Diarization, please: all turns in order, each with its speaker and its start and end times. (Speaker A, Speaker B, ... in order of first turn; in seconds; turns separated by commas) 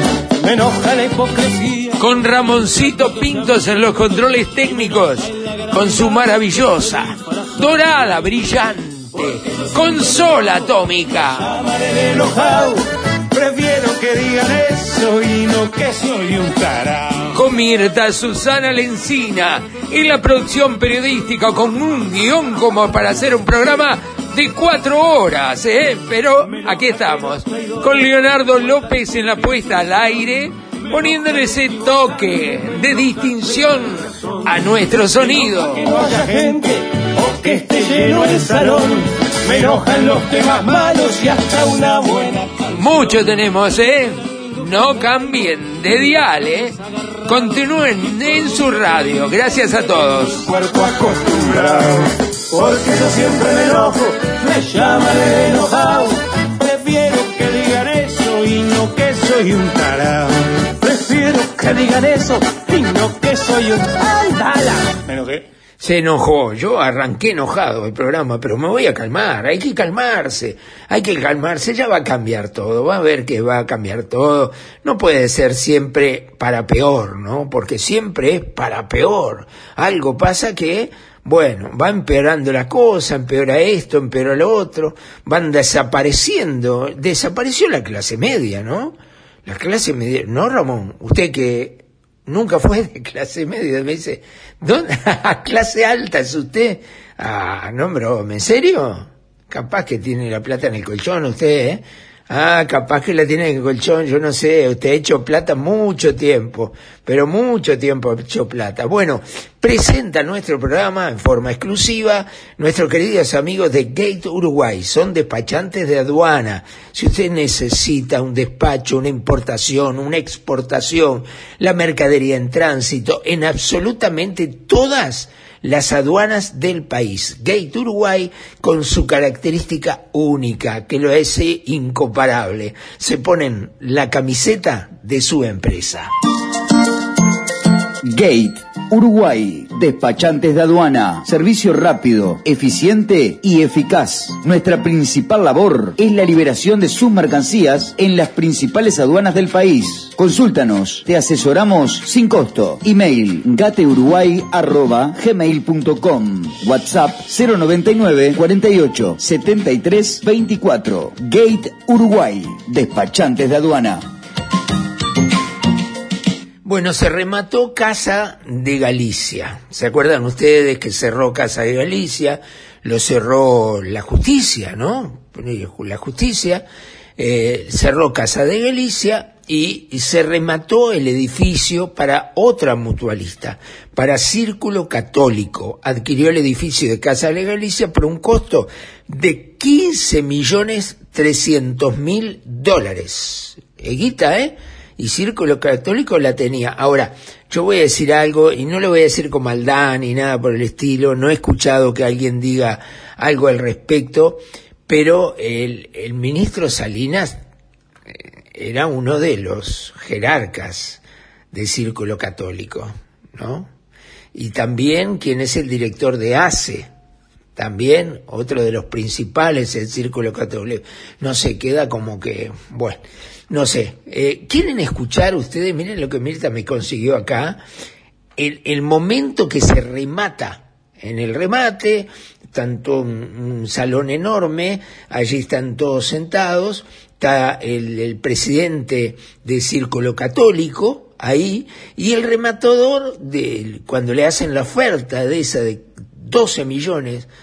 Speaker A: 0.4-2.0, Speaker B: 2.0-11.6, Speaker A: 11.6-17.2, Speaker B: 17.3-35.9, Speaker A: 35.8-42.5, Speaker B: 42.7-50.5, Speaker A: 50.5-65.4, Speaker B: 65.8-89.0, Speaker B: 89.5-136.1, Speaker C: 138.1-164.1, Speaker B: 166.7-176.7, Speaker B: 177.2-207.4, Speaker B: 208.5-211.0, Speaker B: 211.5-213.7, Speaker B: 214.3-216.9, Speaker B: 217.6-227.6, Speaker B: 228.4-247.3